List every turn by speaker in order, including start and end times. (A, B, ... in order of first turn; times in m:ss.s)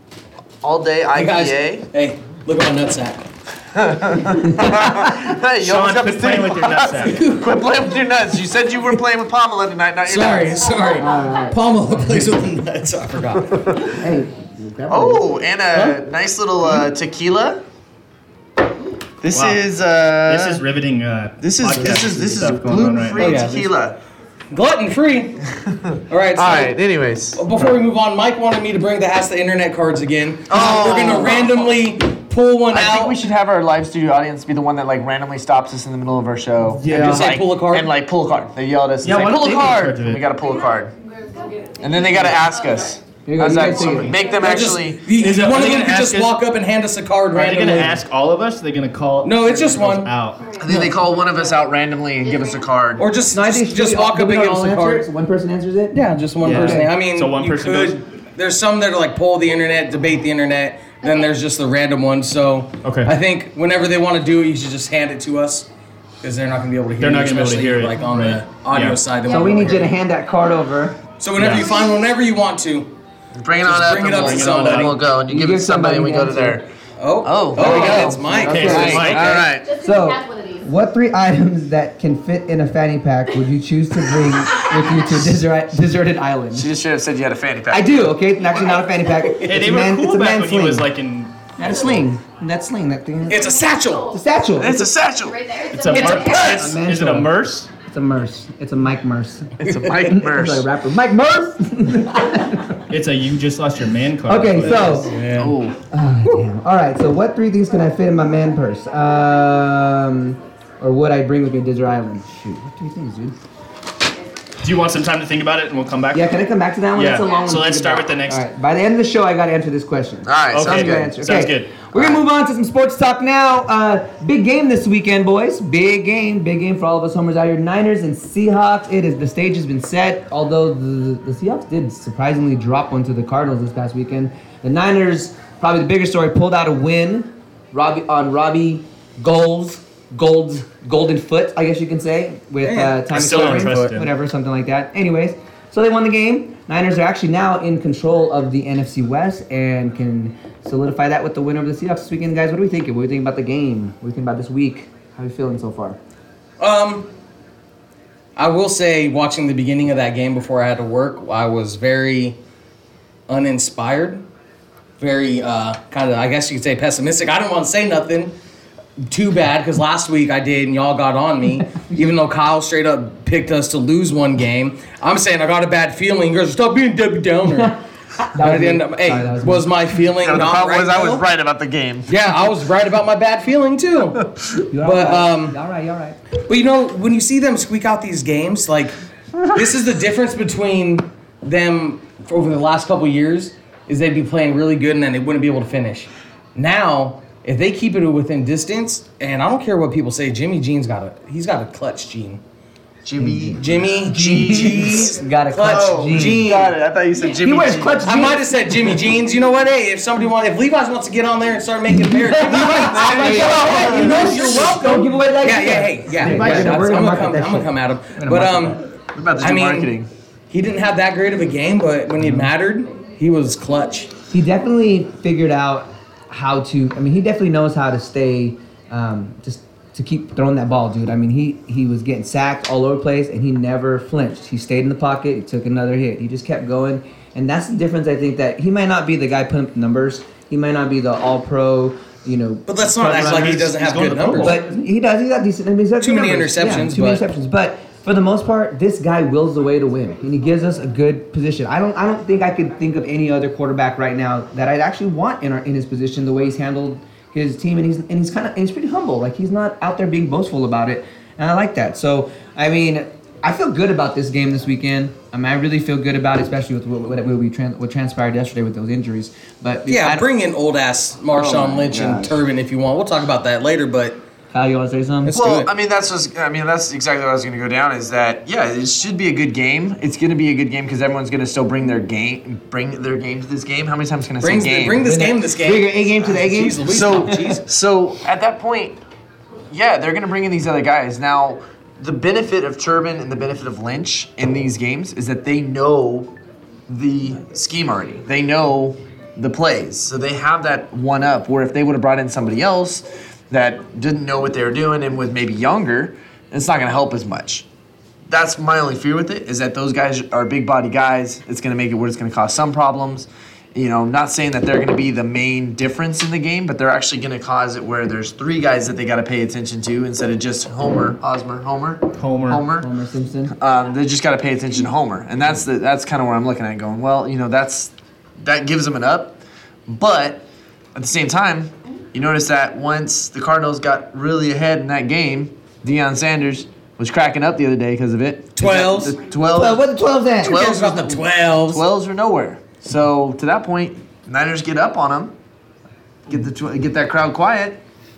0:00.6-0:01.9 A
0:01.1-0:03.2 B
0:03.7-0:10.7 A
0:05.6-0:07.3 C
0:10.0-0:13.9 B
0:11.0-0:11.6 D
0:13.9-0:15.3 D
0:14.9-0:17.6 A
0:15.7-0:16.0 B
0:19.2-0:20.6 A
0:19.3-0:19.6 C
0:20.2-0:23.3 C
0:21.4-0:24.0 A
0:23.2-0:23.7 B
0:24.5-0:26.8 B
0:26.3-0:27.7 A
0:27.3-0:33.2 B
0:30.5-0:31.7 A
0:32.7-0:40.9 A
0:36.8-0:37.3 C
0:36.9-0:37.9 B
0:39.0-0:40.3 C
0:40.4-0:43.0 E
0:41.8-0:45.2 A
0:43.2-0:44.2 D
0:43.4-0:46.4 C
0:44.0-0:44.5 E
0:44.4-0:48.0 B
0:47.3-0:50.7 C
0:49.2-0:50.1 B
0:50.4-0:51.6 E
0:50.6-0:53.0 A
0:52.2-0:52.7 E
0:53.0-0:55.1 B
0:53.3-0:56.9 D
0:55.9-1:05.7 B
0:56.4-0:58.0 C
1:02.8-1:03.1 C
1:06.2-1:09.9 B
1:07.0-1:09.8 C
1:09.3-1:11.0 D
1:11.2-1:12.9 B
1:11.4-1:11.8 C
1:13.3-1:16.7 A
1:13.6-1:15.0 B
1:14.0-1:15.0 C
1:15.2-1:16.6 D
1:17.0-1:19.4 B
1:17.2-1:19.7 A
1:17.6-1:19.2 D
1:18.4-1:19.5 C
1:19.6-1:20.6 E
1:19.8-1:26.7 D
1:26.5-1:28.2 A
1:27.7-1:30.9 D
1:29.4-1:32.0 C
1:31.6-1:33.5 D
1:33.3-1:34.1 B
1:33.3-1:34.2 E
1:34.1-1:34.9 D
1:34.6-1:35.5 A
1:35.2-1:36.6 E
1:35.7-1:37.7 C
1:36.0-1:42.8 D
1:36.0-1:36.7 B
1:39.6-1:40.7 A
1:39.6-1:39.9 B
1:42.9-1:45.2 C
1:44.2-1:45.1 D
1:44.6-1:45.8 A
1:44.8-1:45.6 B
1:45.9-1:53.4 D
1:54.6-1:56.4 C
1:56.1-2:36.0 D
1:56.9-1:58.4 C
2:00.2-2:01.1 A
2:00.5-2:01.8 C
2:01.9-2:02.2 A
2:22.6-2:23.9 B
2:23.1-2:24.1 C
2:36.6-2:37.1 B
2:38.4-2:42.4 B
2:43.3-2:44.2 B
2:45.0-2:48.3 B
2:49.0-2:57.8 B
2:57.5-2:59.7 D
2:58.4-3:01.2 B
3:00.2-3:02.1 A
3:02.1-3:05.6 B
3:04.7-3:06.2 D
3:06.4-3:22.4 B
3:23.0-3:28.2 A
3:23.2-3:26.7 D
3:23.6-3:26.7 B
3:27.3-3:29.0 D
3:28.0-3:38.8 B
3:31.9-3:38.8 D
3:32.5-3:34.9 A
3:36.2-3:36.8 C
3:39.1-3:40.1 A
3:39.4-3:40.0 B
3:40.5-3:44.1 B
3:42.2-3:42.5 D
3:44.3-4:03.6 D
4:02.7-4:04.6 B
4:03.0-4:04.8 C
4:04.3-4:30.3 D
4:06.0-4:07.2 B
4:29.9-4:34.2 B
4:31.3-4:32.4 D
4:34.5-4:35.4 D
4:35.2-4:35.7 B
4:35.3-4:45.1 A
4:44.4-4:47.6 B
4:45.0-4:47.5 D
4:46.8-4:49.0 A
4:49.7-4:56.3 A
4:56.9-5:07.6 A
5:08.3-5:22.9 A
5:22.1-5:22.6 C
5:22.8-5:23.5 D
5:23.5-5:45.3 A
5:38.5-5:39.2 B
5:39.5-5:40.6 D
5:40.4-5:41.9 B
5:46.3-5:47.8 A